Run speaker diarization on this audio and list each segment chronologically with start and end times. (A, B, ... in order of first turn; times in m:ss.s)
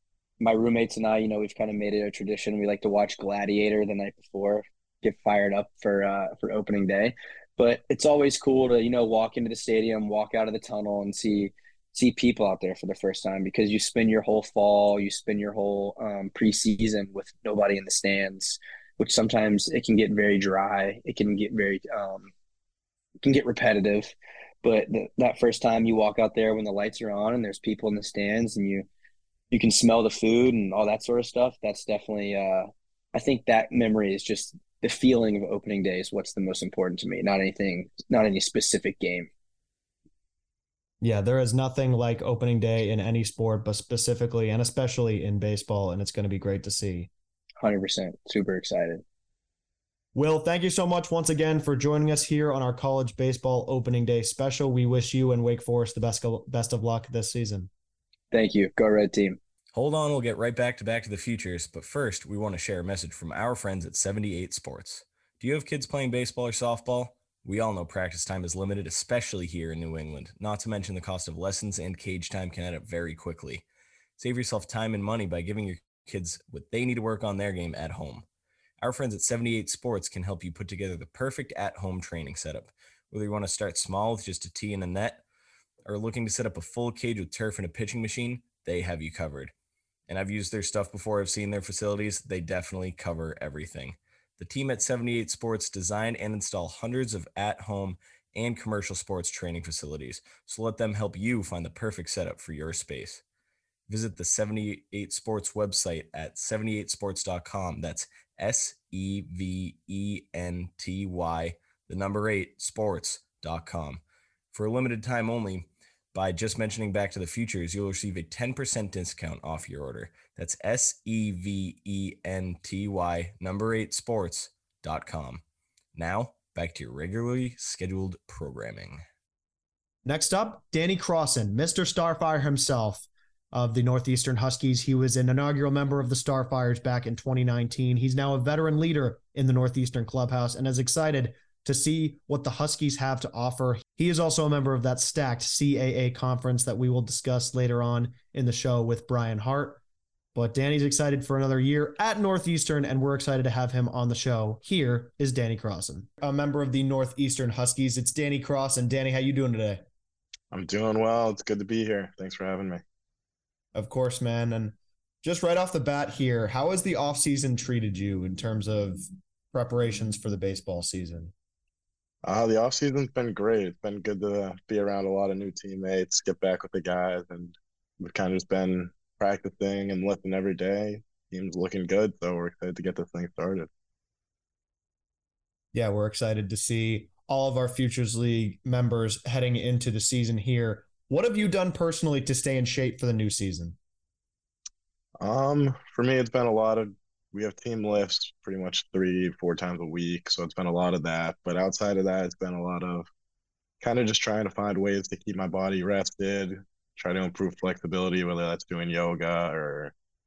0:00.4-0:22.3 A
0:23.2-0:24.1 A
0:24.6-0:28.9 A
0:29.5-0:39.3 A
0:41.0-0:47.1 B
0:47.6-0:49.0 A
0:50.1-0:57.7 B
0:58.3-0:59.4 A
0:59.7-1:13.6 C
1:14.2-1:18.2 C
1:18.8-1:25.2 C
1:25.8-1:29.5 C
1:30.1-1:43.2 C
1:43.9-2:05.4 C
2:06.0-2:09.0 C
2:10.0-2:29.8 B
2:30.4-2:39.8 B
2:40.5-2:42.8 D
2:43.7-2:51.3 B
2:52.2-3:03.7 D
3:05.7-3:13.8 B
3:15.2-3:23.1 D
3:23.8-3:29.9 D